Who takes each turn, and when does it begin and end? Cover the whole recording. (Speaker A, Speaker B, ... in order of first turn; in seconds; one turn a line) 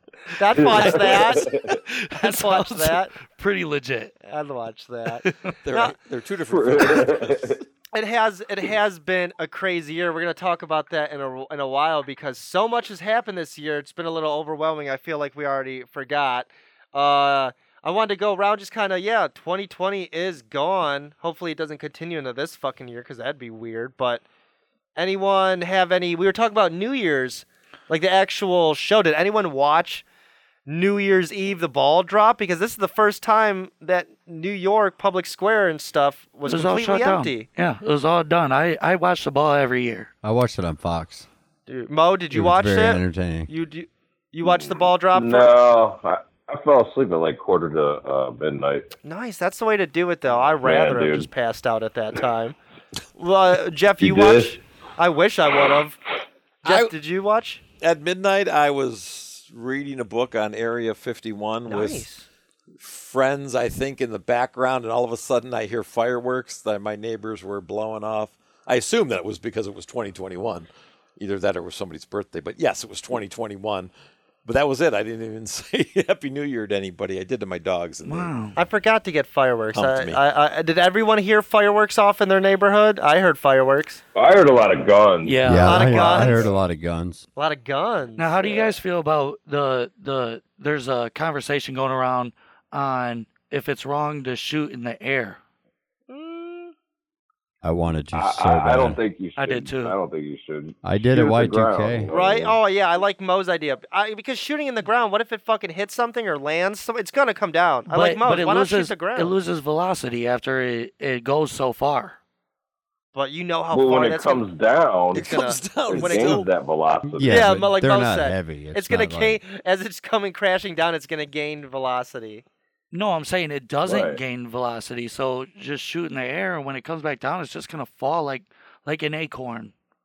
Speaker A: 0.3-1.5
Speaker B: 0.5-1.8
Speaker C: 1.7-4.1
Speaker A: 2.1-3.1
Speaker A: 4.2-5.9
Speaker C: 5.2-5.5
Speaker D: 5.6-7.6
Speaker B: 6.5-7.6
Speaker A: 7.9-24.2
Speaker A: 24.9-30.0
Speaker A: 30.7-37.5
Speaker C: 36.5-40.1
Speaker E: 40.2-41.3
Speaker A: 41.7-45.5
Speaker E: 42.3-43.5
Speaker B: 44.4-48.9
Speaker A: 49.0-52.5
Speaker B: 50.6-51.3
Speaker A: 53.2-56.0
Speaker B: 54.0-54.5
Speaker A: 56.6-57.6
Speaker D: 56.6-56.9
Speaker D: 57.8-62.1
Speaker A: 61.7-62.3
Speaker D: 62.8-73.9
Speaker D: 74.4-78.3
Speaker C: 78.0-78.6
Speaker A: 78.5-84.0
Speaker D: 79.7-80.2
Speaker B: 84.1-85.4
Speaker C: 85.2-86.5
Speaker E: 85.4-87.2
Speaker A: 85.6-86.5
Speaker B: 86.2-86.5
Speaker A: 87.3-88.7
Speaker C: 88.2-95.4
Speaker A: 96.1-96.7
Speaker E: 97.6-99.0
Speaker B: 98.1-102.6
Speaker C: 99.4-100.0
Speaker E: 100.8-102.1
Speaker A: 102.1-109.3
Speaker C: 107.9-112.2
Speaker A: 113.1-114.5
Speaker B: 113.7-115.3
Speaker D: 115.1-116.5
Speaker A: 115.1-116.4
Speaker B: 115.9-117.5
Speaker E: 117.1-119.4
Speaker A: 117.2-122.4
Speaker C: 122.9-129.7
Speaker B: 123.8-124.2